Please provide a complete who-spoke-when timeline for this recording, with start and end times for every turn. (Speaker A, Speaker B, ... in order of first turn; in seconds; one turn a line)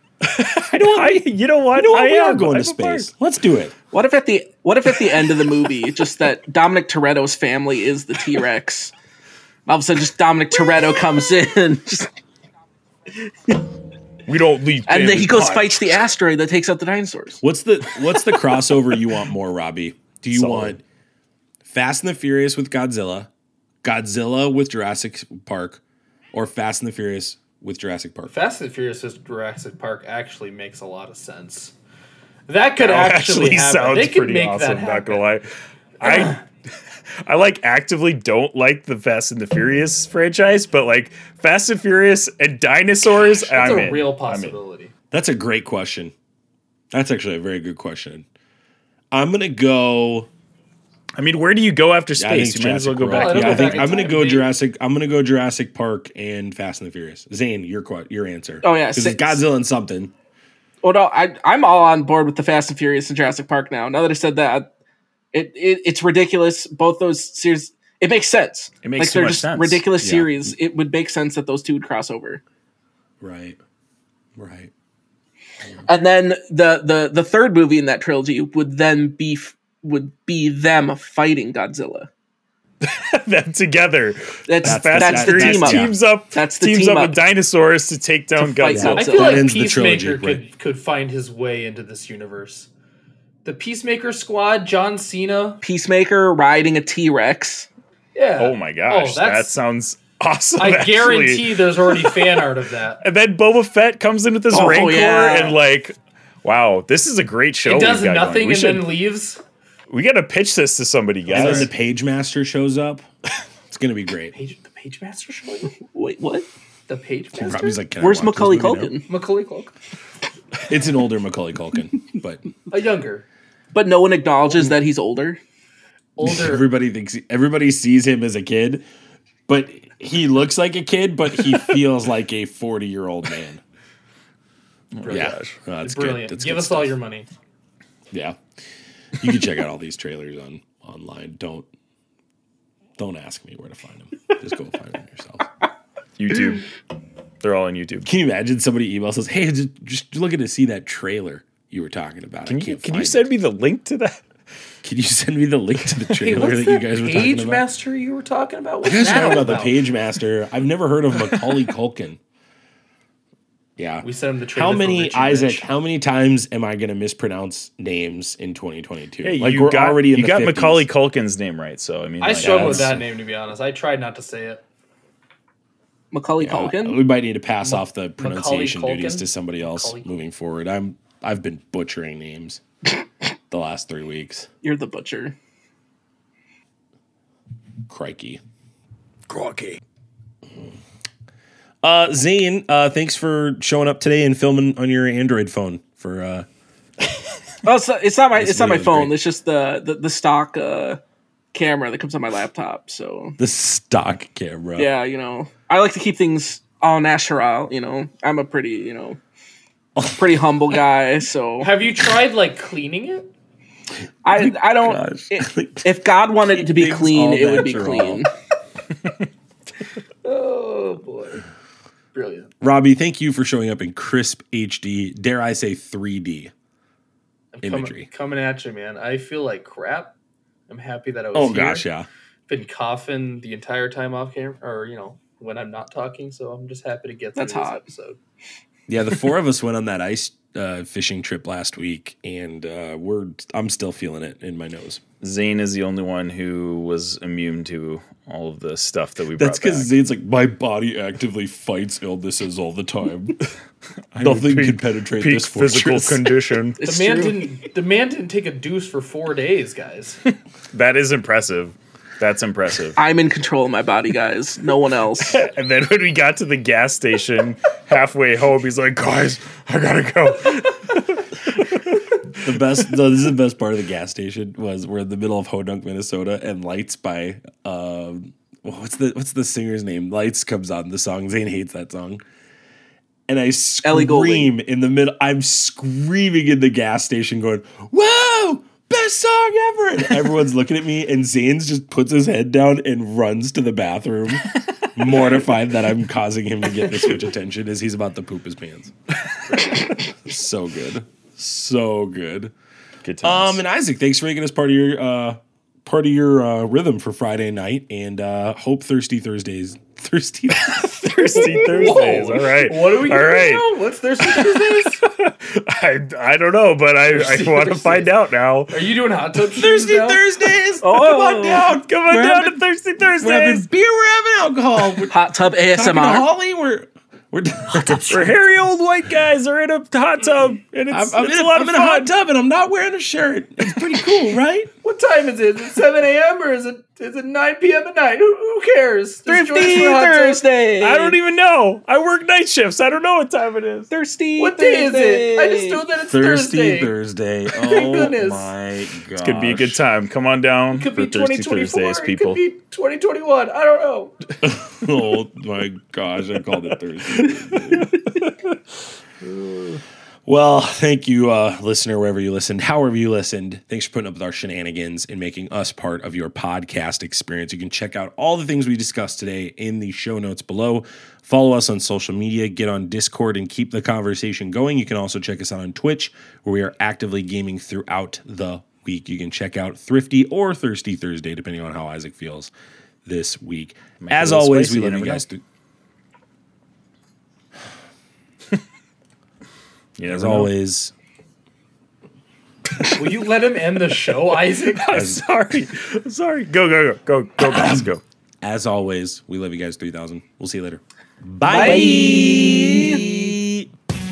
Speaker A: 0.2-3.1
Speaker B: 0.7-3.7
Speaker C: 3.9-8.9
Speaker C: 9.7-12.1
Speaker A: 14.3-16.1
Speaker C: 14.9-17.4
Speaker B: 17.4-20.8
Speaker C: 18.1-18.4
Speaker A: 20.3-20.8
Speaker B: 21.6-23.3
Speaker B: 23.8-25.8
Speaker B: 26.3-28.3
Speaker D: 28.3-31.7
Speaker D: 32.5-35.2
Speaker A: 32.8-35.5
Speaker A: 36.0-36.4
Speaker D: 36.0-36.4
Speaker A: 37.2-44.6
Speaker D: 43.5-44.9
Speaker B: 45.1-46.1
Speaker B: 46.9-48.2
Speaker B: 49.1-50.3
Speaker A: 51.2-54.0
Speaker B: 52.2-60.1
Speaker D: 53.1-54.5
Speaker C: 58.6-59.4
Speaker C: 60.8-64.7
Speaker C: 65.3-72.4
Speaker A: 68.8-70.3
Speaker B: 73.2-73.6
Speaker B: 74.4-74.7
Speaker C: 75.9-82.1
Speaker A: 82.8-89.0
Speaker C: 84.5-87.1
Speaker B: 84.6-85.9
Speaker C: 88.4-89.4
Speaker B: 88.7-90.4
Speaker D: 88.9-92.7
Speaker D: 93.4-95.6
Speaker C: 95.6-97.7
Speaker D: 98.1-99.5
Speaker A: 98.4-102.2
Speaker D: 100.6-103.0
Speaker A: 103.0-109.0
Speaker C: 104.5-105.6
Speaker D: 107.6-109.4
Speaker A: 109.9-111.7
Speaker B: 111.3-113.0
Speaker B: 113.7-114.3
Speaker D: 114.3-115.8
Speaker C: 115.8-116.5
Speaker D: 116.9-117.8
Speaker B: 117.3-118.9
Speaker C: 118.0-119.0
Speaker D: 119.1-119.8
Speaker B: 120.7-122.5
Speaker D: 122.7-123.2
Speaker C: 123.7-125.4
Speaker D: 126.2-126.6
Speaker B: 126.2-128.8
Speaker B: 129.5-133.6
Speaker A: 134.9-135.6
Speaker B: 135.1-136.9
Speaker D: 135.1-137.3
Speaker B: 138.1-138.5
Speaker B: 139.2-141.7
Speaker B: 143.0-145.5
Speaker A: 146.2-146.7
Speaker A: 147.4-148.1
Speaker B: 148.0-153.3
Speaker A: 152.4-154.2
Speaker B: 154.8-157.6
Speaker D: 156.2-159.8
Speaker B: 158.8-162.2
Speaker B: 163.8-170.9
Speaker D: 164.0-165.7
Speaker A: 169.2-172.9
Speaker D: 172.2-174.6
Speaker B: 172.4-172.9
Speaker C: 176.1-177.0
Speaker B: 176.4-182.6
Speaker D: 177.6-180.1
Speaker B: 183.5-184.5
Speaker C: 184.6-185.3
Speaker B: 187.9-188.4
Speaker A: 189.3-189.8
Speaker B: 191.8-196.5
Speaker C: 197.6-201.0
Speaker B: 198.3-199.2
Speaker C: 201.5-203.4
Speaker B: 203.4-204.9
Speaker C: 204.8-209.2
Speaker B: 209.9-210.5
Speaker C: 210.2-211.7
Speaker D: 211.6-213.3
Speaker C: 214.2-218.3
Speaker B: 214.3-218.2
Speaker D: 220.2-221.4
Speaker D: 222.1-222.5
Speaker B: 222.6-226.5
Speaker D: 227.5-230.1
Speaker B: 227.6-228.1
Speaker D: 230.7-231.8
Speaker B: 231.3-232.1
Speaker D: 232.5-238.2
Speaker C: 237.3-237.8
Speaker B: 238.9-245.0
Speaker A: 245.2-249.9
Speaker B: 249.4-253.5
Speaker A: 254.1-256.8
Speaker B: 254.2-256.6
Speaker C: 256.8-257.5
Speaker D: 256.8-260.2
Speaker A: 260.2-263.0
Speaker C: 262.9-265.4
Speaker A: 265.2-272.9
Speaker B: 272.4-282.2
Speaker B: 283.3-298.9
Speaker C: 283.8-284.5
Speaker A: 294.8-295.3
Speaker B: 299.8-302.5
Speaker A: 303.0-303.6
Speaker B: 303.2-312.0
Speaker A: 310.6-313.6
Speaker D: 311.2-315.1
Speaker A: 314.2-318.7
Speaker D: 317.1-318.1
Speaker D: 318.7-320.2
Speaker B: 319.5-322.2
Speaker C: 320.8-322.5
Speaker A: 321.6-323.7
Speaker B: 323.2-328.4
Speaker C: 325.1-326.3
Speaker A: 327.7-332.1
Speaker B: 330.9-334.7
Speaker D: 334.8-340.4
Speaker C: 339.3-341.2
Speaker A: 340.8-343.9
Speaker C: 343.9-345.8
Speaker D: 344.4-346.9
Speaker B: 346.0-349.8
Speaker D: 347.6-348.5
Speaker A: 349.2-352.4
Speaker D: 350.7-354.1
Speaker B: 354.4-358.0
Speaker A: 357.2-357.9
Speaker B: 360.2-382.5
Speaker B: 383.0-385.4
Speaker A: 384.0-385.2
Speaker A: 390.0-390.5
Speaker B: 390.1-390.9
Speaker D: 392.9-394.9
Speaker A: 394.6-398.0
Speaker B: 394.9-395.2
Speaker B: 397.4-397.9
Speaker B: 398.4-403.7
Speaker C: 401.4-403.3
Speaker A: 401.6-402.0